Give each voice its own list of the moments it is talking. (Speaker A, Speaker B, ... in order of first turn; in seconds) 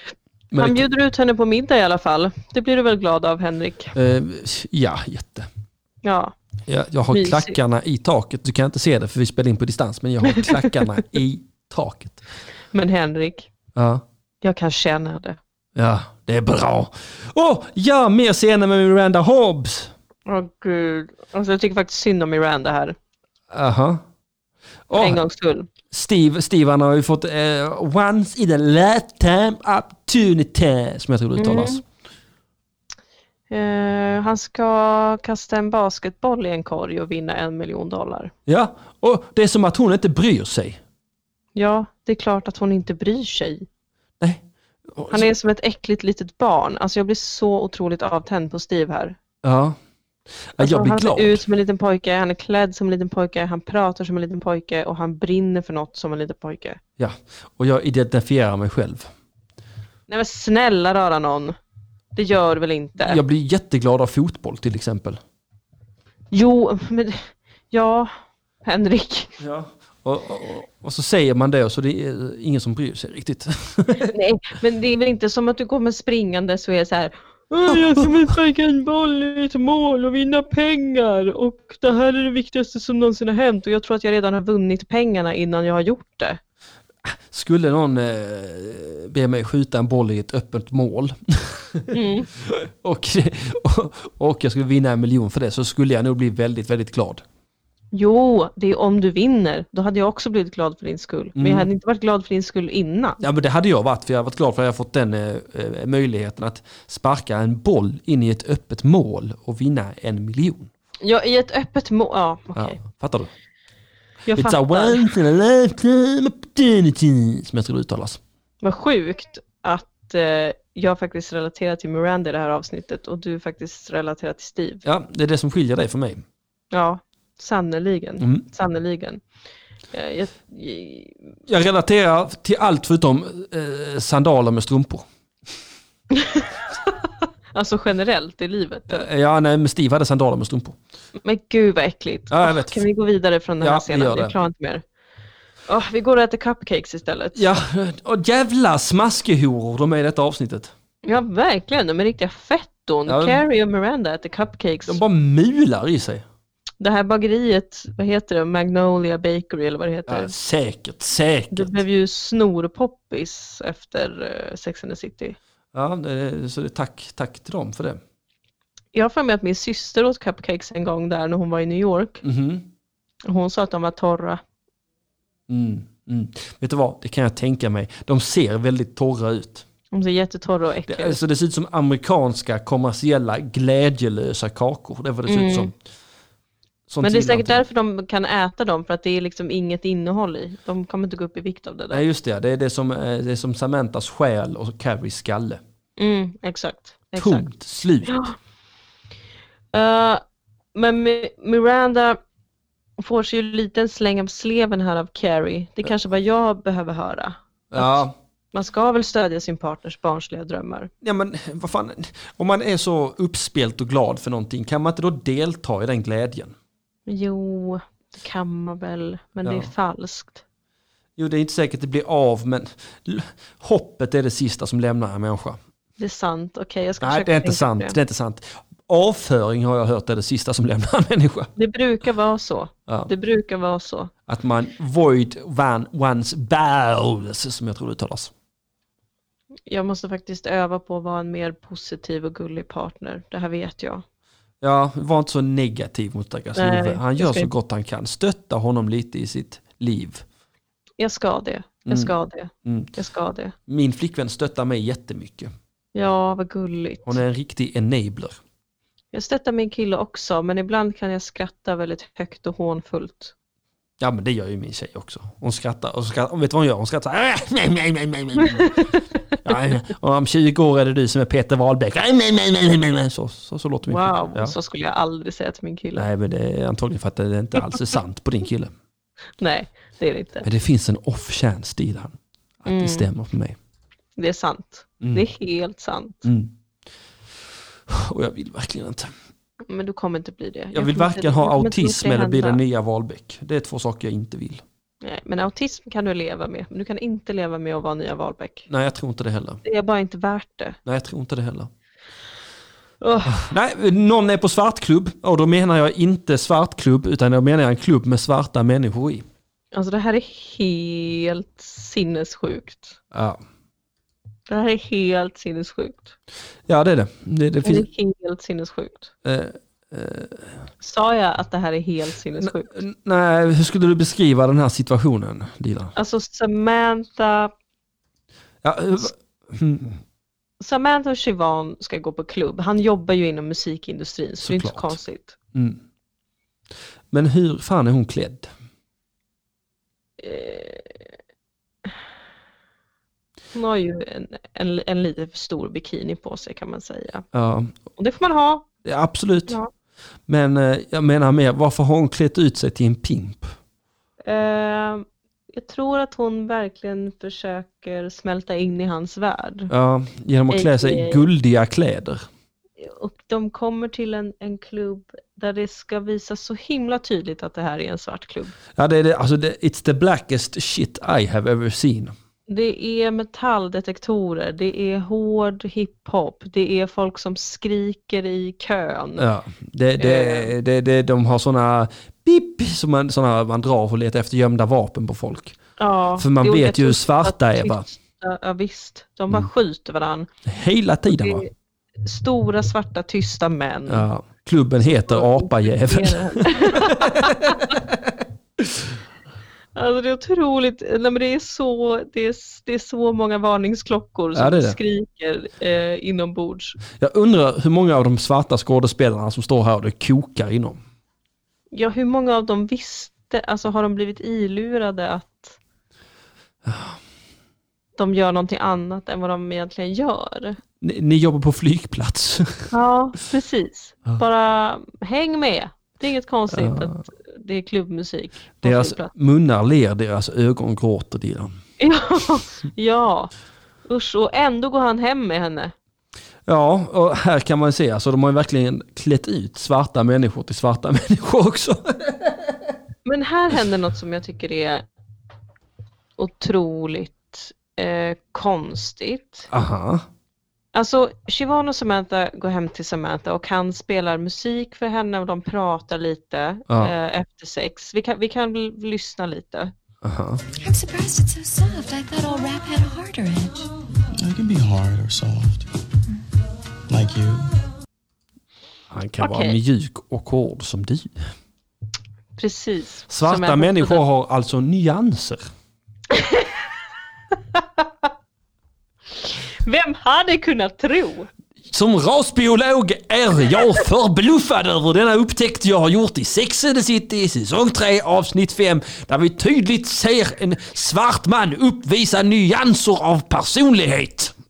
Speaker A: 0.5-0.8, 3.9-5.5, 6.7-12.2, 13.7-14.0, 15.8-19.9, 23.5-24.0, 24.9-25.2, 25.9-31.8, 38.5-40.8, 44.9-45.3, 49.4-49.8, 50.5-51.4, 57.0-59.1, 63.0-65.2, 69.4-74.1, 87.0-97.2, 101.3-101.7, 103.2-110.7, 112.5-113.3, 114.3-118.2, 124.8-126.2, 131.5-135.0, 138.9-140.8, 142.3-142.8, 143.6-144.3, 147.3-150.7, 153.1-153.4, 154.9-156.2, 160.1-161.8, 165.7-168.0, 172.2-172.7, 175.5-179.7, 180.9-185.7, 186.9-187.6, 191.9-195.6, 197.2-198.1, 207.7-208.1, 211.0-216.5, 219.4-219.7, 221.2-225.6, 227.0-231.5, 234.3-238.3, 244.6-250.2, 251.8-252.1, 252.6-252.9, 253.7-255.5, 257.1-258.4, 264.0-268.7, 269.4-274.5, 275.9-278.7, 280.4-283.6, 286.2-286.5, 287.9-289.1, 290.7-294.6, 298.7-299.6, 300.9-301.7, 303.2-309.2, 313.1-313.4, 316.7-317.9, 319.2-320.6, 322.4-325.9, 328.6-330.0, 334.4-335.0, 335.5-335.8, 337.1-338.5, 347.3-347.8, 348.8-349.6, 350.3-353.5, 359.7-362.2, 368.8-372.1, 379.2-385.6, 386.2-387.9, 390.4-391.4, 393.9-398.9, 404.3-404.8, 407.0-410.8, 416.6-417.0, 420.8-422.7, 426.5-427.0, 428.6-431.5, 436.4-442.3, 449.5-450.0, 456.7-456.9, 460.0-460.4, 468.9-471.1, 473.1-475.4, 481.7-494.3
Speaker B: 0.6-3.9, 6.0-6.3, 7.1-7.6, 10.3-10.7, 12.7-13.5, 14.4-15.4, 20.3-22.9, 25.0-25.7, 31.4-31.8, 33.5-38.3, 41.5-43.6, 45.1-49.2, 50.6-56.8, 60.1-61.6, 62.1-63.2, 66.3-68.1, 68.6-69.3, 74.1-86.4, 91.9-92.3, 97.9-103.2, 111.0-112.8, 114.2-115.1, 118.6-124.8, 126.7-129.2, 129.9-131.3, 136.1-139.1, 141.2-144.8, 145.7-147.4, 151.0-155.0, 156.8-160.3, 161.5-165.4, 168.9-172.2, 173.2-174.4, 179.9-181.2, 185.3-185.7, 187.0-192.0, 196.0-197.5, 198.1-198.3, 199.7-200.2, 200.7-202.2, 203.0-210.9, 217.1-220.4, 226.0-228.0, 231.6-234.1, 239.7-244.0, 246.6-247.5, 251.0-253.5, 255.9-257.2, 259.1-263.3, 268.4-269.0, 273.9-276.1, 279.4-280.5, 282.6-283.1, 284.1-286.3, 289.7-292.6, 295.0-298.7, 299.6-300.8, 303.0-303.4, 309.7-313.0, 314.5-316.1, 317.6-319.1, 320.8-322.7, 325.9-327.5, 330.6-335.4, 340.2-341.1, 343.5-347.2, 348.0-348.6, 354.2-359.7, 360.5-361.2, 362.8-368.6, 372.5-379.3, 380.0-380.5, 385.8-390.3, 391.1-394.1, 394.8-397.8, 399.7-406.8, 411.7-415.6, 418.0-420.6, 422.7-429.1, 431.8-433.3, 433.9-435.7, 443.0-444.8, 446.2-449.5, 450.7-459.7, 469.2-469.6, 472.4-474.0, 476.1-476.7, 477.3-478.1, 479.1-481.3
Speaker C: 460.6-463.7
Speaker D: 464.1-465.7, 466.9-467.5